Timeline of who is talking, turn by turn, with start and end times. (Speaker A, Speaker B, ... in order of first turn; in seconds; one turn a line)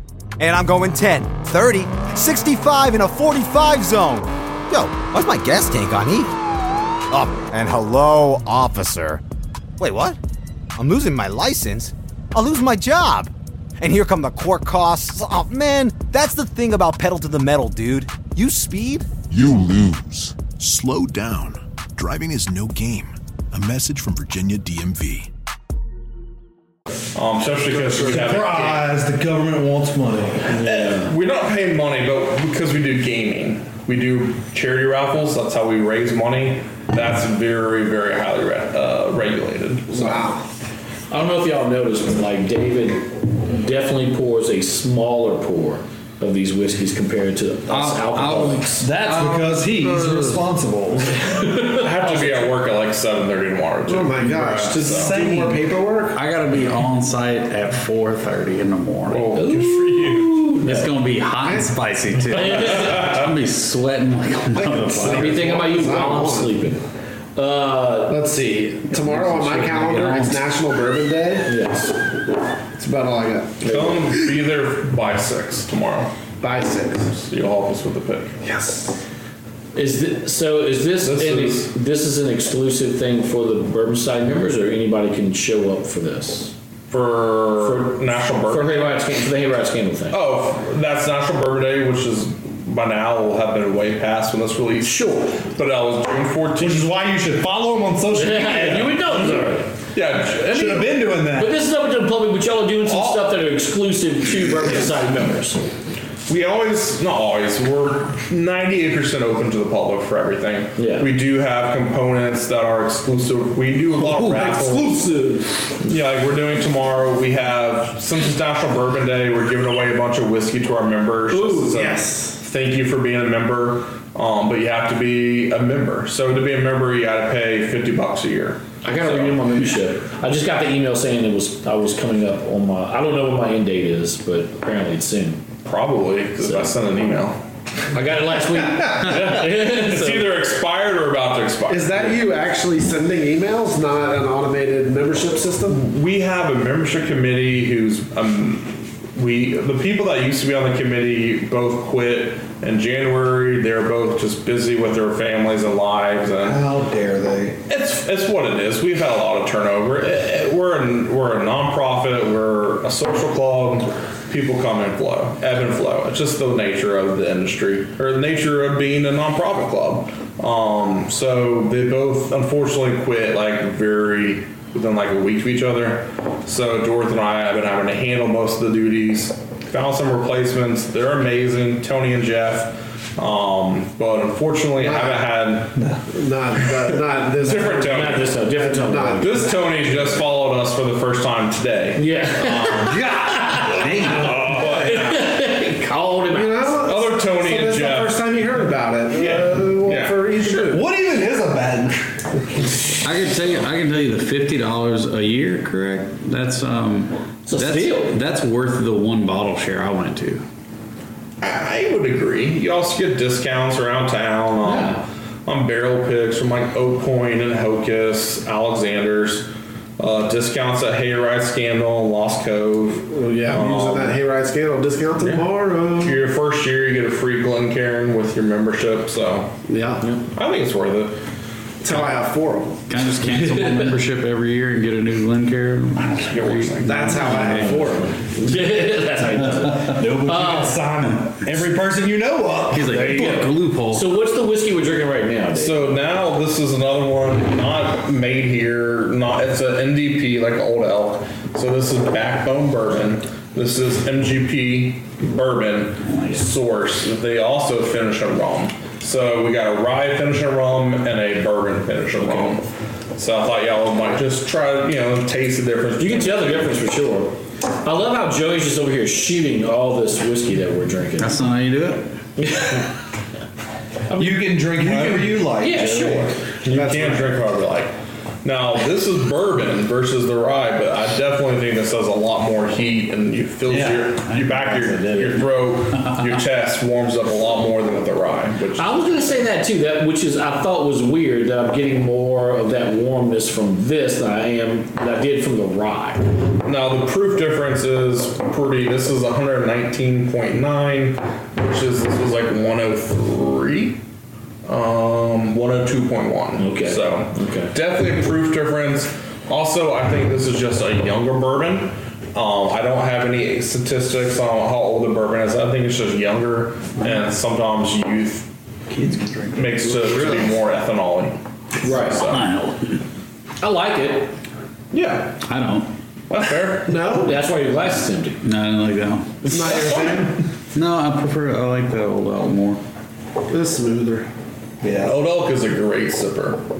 Speaker A: 0.4-6.3
Speaker A: 7.1-9.2
Speaker A: 9.8-10.2
Speaker A: 10.8-19.1
Speaker B: 19.3-25.3
Speaker C: 27.1-28.9
Speaker D: 27.7-28.7
Speaker E: 28.0-30.5
Speaker F: 30.5-31.1
Speaker C: 30.5-40.3
Speaker D: 39.9-40.4
Speaker F: 41.1-48.9
Speaker G: 47.7-50.4
Speaker E: 48.8-51.2
Speaker F: 51.2-52.5
Speaker C: 51.5-55.1
Speaker D: 53.9-56.2
Speaker E: 54.8-55.6
Speaker G: 56.1-65.5
Speaker C: 59.1-60.5
Speaker F: 59.3-60.0
Speaker F: 60.6-60.9
Speaker D: 61.4-61.7
Speaker F: 62.3-63.0
Speaker C: 62.8-63.0
Speaker D: 64.5-66.6
Speaker F: 64.9-66.8
Speaker F: 67.3-68.2
Speaker D: 68.1-71.5
Speaker G: 68.9-70.5
Speaker F: 71.5-71.9
Speaker D: 72.8-73.6
Speaker C: 73.6-76.1
Speaker D: 76.4-77.1
Speaker C: 77.1-78.3
Speaker D: 78.4-79.0
Speaker F: 79.7-86.5
Speaker C: 81.0-81.7
Speaker C: 86.9-89.0
Speaker F: 87.6-90.2
Speaker C: 90.1-96.9
Speaker F: 94.8-95.4
Speaker E: 96.6-99.3
Speaker F: 98.1-99.7
Speaker C: 99.9-101.0
Speaker E: 100.4-101.6
Speaker F: 101.3-105.6
Speaker C: 102.8-103.3
Speaker C: 106.3-115.0
Speaker F: 110.8-111.1
Speaker E: 114.2-114.7
Speaker D: 114.8-115.2
Speaker C: 115.8-129.5
Speaker F: 121.3-121.7
Speaker D: 121.7-122.4
Speaker F: 128.8-135.4
Speaker C: 135.6-137.4
Speaker F: 136.4-136.7
Speaker F: 137.9-140.3
Speaker C: 138.9-142.2
Speaker D: 141.7-145.8
Speaker C: 145.7-156.6
Speaker E: 156.4-157.6
Speaker C: 157.7-185.8
Speaker D: 184.8-185.2
Speaker D: 186.1-189.9
Speaker C: 187.4-188.3
Speaker F: 187.8-189.5
Speaker C: 189.2-193.1
Speaker F: 192.0-194.1
Speaker E: 192.9-194.8
Speaker C: 193.9-195.3
Speaker F: 194.8-196.8
Speaker D: 196.3-200.8
Speaker C: 196.8-198.2
Speaker C: 199.1-200.8
Speaker E: 200.7-202.2
Speaker G: 203.0-210.4
Speaker F: 207.5-208.2
Speaker C: 211.4-224.2
Speaker F: 214.6-215.0
Speaker D: 223.1-226.2
Speaker C: 225.2-229.5
Speaker D: 229.7-230.0
Speaker C: 230.3-231.2
Speaker D: 231.8-232.8
Speaker G: 232.9-237.8
Speaker F: 233.5-233.9
Speaker C: 236.2-237.2
Speaker D: 236.8-238.1
Speaker F: 237.2-240.8
Speaker E: 239.7-243.4
Speaker G: 242.7-244.1
Speaker F: 242.9-245.9
Speaker C: 245.5-262.6
Speaker F: 262.2-262.5
Speaker C: 263.1-266.8
Speaker F: 266.0-271.4
Speaker G: 271.2-272.1
Speaker F: 272.4-272.9
Speaker F: 274.1-274.6
Speaker E: 274.1-276.4
Speaker C: 274.8-275.3
Speaker F: 275.6-276.3
Speaker C: 276.6-277.9
Speaker D: 276.6-277.4
Speaker C: 278.4-289.4
Speaker E: 283.7-284.2
Speaker F: 288.8-296.2
Speaker C: 296.6-304.0
Speaker C: 304.6-318.5
Speaker F: 306.6-307.7
Speaker G: 318.9-320.1
Speaker C: 319.5-322.5
Speaker F: 321.8-322.2
Speaker G: 322.2-323.0
Speaker F: 323.6-324.3
Speaker C: 324.9-325.4
Speaker G: 325.4-325.9
Speaker C: 326.3-327.1
Speaker D: 326.9-327.4
Speaker F: 327.2-328.4
Speaker G: 328.4-329.9
Speaker D: 329.4-330.4
Speaker C: 329.7-330.1
Speaker G: 330.7-332.8
Speaker D: 333.5-334.3
Speaker E: 334.8-335.1
Speaker C: 335.0-336.6